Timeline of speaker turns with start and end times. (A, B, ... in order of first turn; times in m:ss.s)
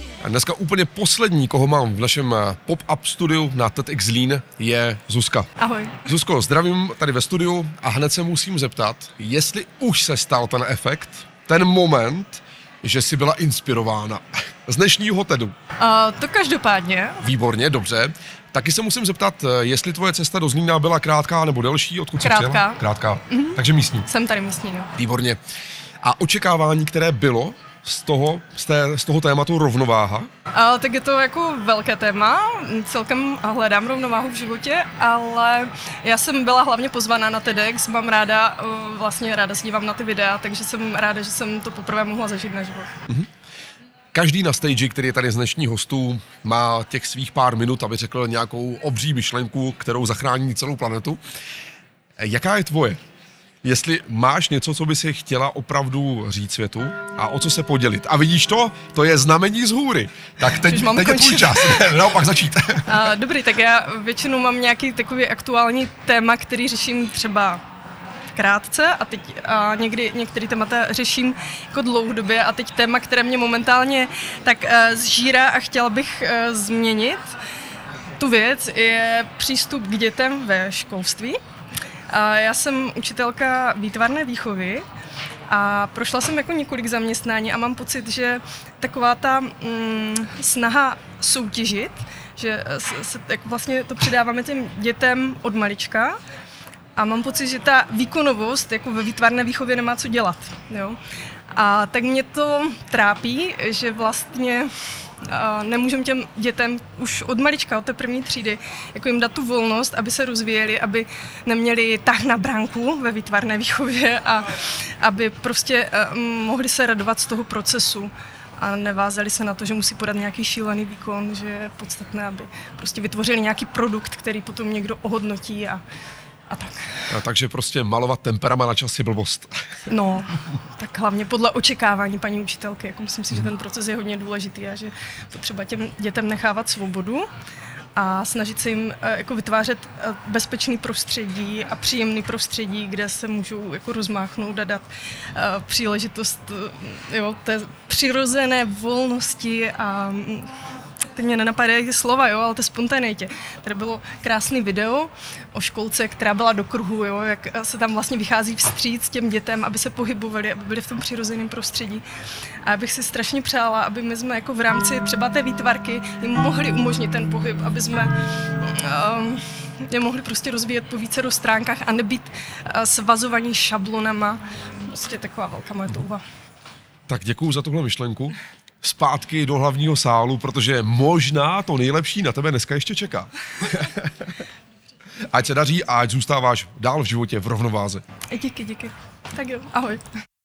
0:00.2-0:05.5 A
0:05.6-0:06.0 B
0:06.0-0:15.5 A
0:15.8-0:17.2 B
0:17.2-0:24.1 A
0:22.2-0:24.9 B
0:25.0-0:25.4 A
0:26.0-0:30.3 A
0:30.5-0:42.9 B
0:44.1-0:51.2 A
0:52.2-0:53.0 A
0:53.6-1:03.0 A
1:00.4-1:02.0 B
1:02.9-1:07.6 B
1:08.3-1:17.3 B
1:18.2-1:21.4 B
1:22.1-1:24.8 B
1:25.5-1:36.2 B
1:37.0-1:41.0 B
1:41.5-1:44.7 B
1:45.2-2:05.8 B
2:06.5-2:07.1 B
2:07.1-2:09.5 A
2:09.9-2:17.3 B
2:18.0-2:30.5 B
2:31.1-2:42.0 B
2:42.6-2:56.2 B
2:57.1-3:04.1 A
3:05.3-3:08.0 A
3:08.3-3:10.0 B